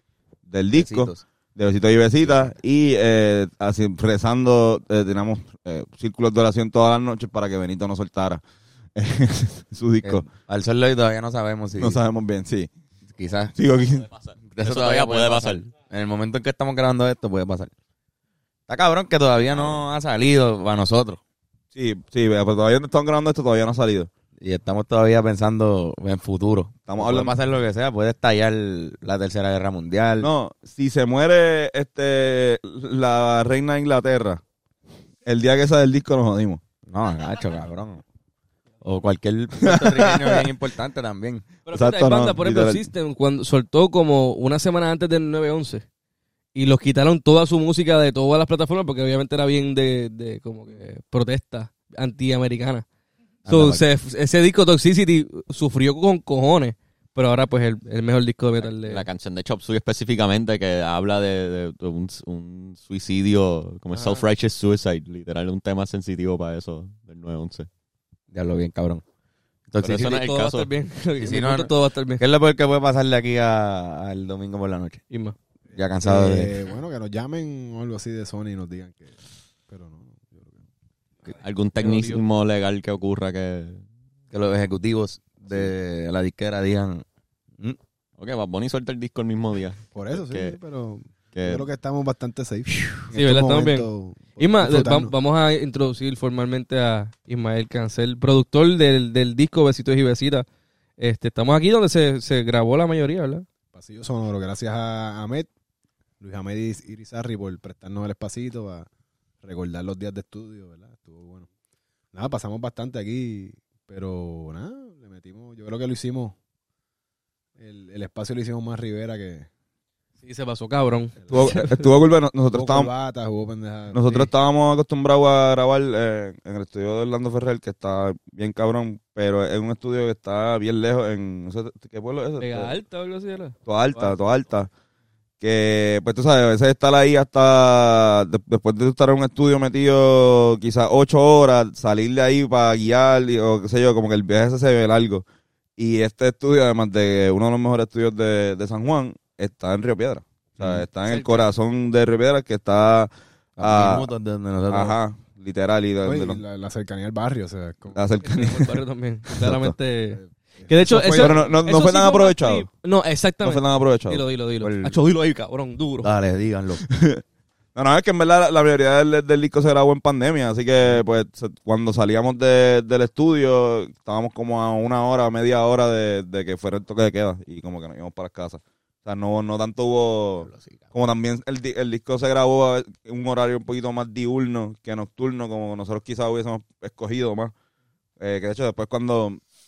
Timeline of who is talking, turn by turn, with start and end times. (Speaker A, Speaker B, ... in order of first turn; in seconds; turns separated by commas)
Speaker A: 0.5-8.4, Speaker B: 0.7-1.2, Speaker B: 2.2-2.5, Speaker A: 8.9-10.3, Speaker B: 10.0-12.0, Speaker A: 11.8-12.7, Speaker B: 13.1-13.5, Speaker A: 13.6-14.1, Speaker C: 14.0-15.7, Speaker B: 14.5-17.7, Speaker B: 18.7-21.2, Speaker A: 21.7-24.1, Speaker B: 24.4-30.3, Speaker A: 26.9-27.3, Speaker A: 30.2-34.4, Speaker A: 35.2-36.6, Speaker B: 36.9-38.0, Speaker B: 38.8-41.5, Speaker A: 39.6-40.4, Speaker D: 41.6-45.8, Speaker A: 41.7-42.9, Speaker D: 46.5-52.9, Speaker B: 53.4-53.8, Speaker D: 53.5-59.1, Speaker C: 58.6-67.7, Speaker D: 63.9-64.2, Speaker B: 68.3-69.0, Speaker B: 69.7-70.2, Speaker C: 69.8-70.7, Speaker D: 70.0-72.2, Speaker B: 71.2-75.0, Speaker D: 75.1-75.3, Speaker B: 75.7-76.6, Speaker E: 76.0-79.2, Speaker E: 79.7-80.6, Speaker C: 81.3-83.8, Speaker D: 81.8-82.2, Speaker B: 84.3-87.0, Speaker C: 88.2-90.6, Speaker E: 89.9-95.1, Speaker C: 91.3-91.7, Speaker D: 93.1-100.5, Speaker D: 101.0-103.5, Speaker E: 103.7-105.5, Speaker E: 106.2-108.9, Speaker E: 109.4-111.5, Speaker E: 112.1-116.4, Speaker E: 117.6-119.5, Speaker D: 120.2-121.9, Speaker E: 121.2-121.6, Speaker A: 121.3-122.9, Speaker E: 122.5-124.3, Speaker A: 123.9-132.8, Speaker D: 132.4-134.3, Speaker A: 133.7-134.7, Speaker A: 135.4-145.2, Speaker A: 145.8-154.1, Speaker B: 150.6-150.8, Speaker D: 151.0-151.5, Speaker B: 153.6-154.9, Speaker A: 154.7-156.4, Speaker E: 156.0-158.1, Speaker A: 157.9-158.8, Speaker D: 158.2-166.1, Speaker A: 159.3-159.7, Speaker E: 160.1-161.4, Speaker A: 161.0-162.7, Speaker A: 163.4-164.3, Speaker B: 164.6-165.0, Speaker B: 166.0-166.8, Speaker A: 166.8-167.2, Speaker A: 167.7-187.5, Speaker B: 180.4-180.9, Speaker A: 188.2-189.4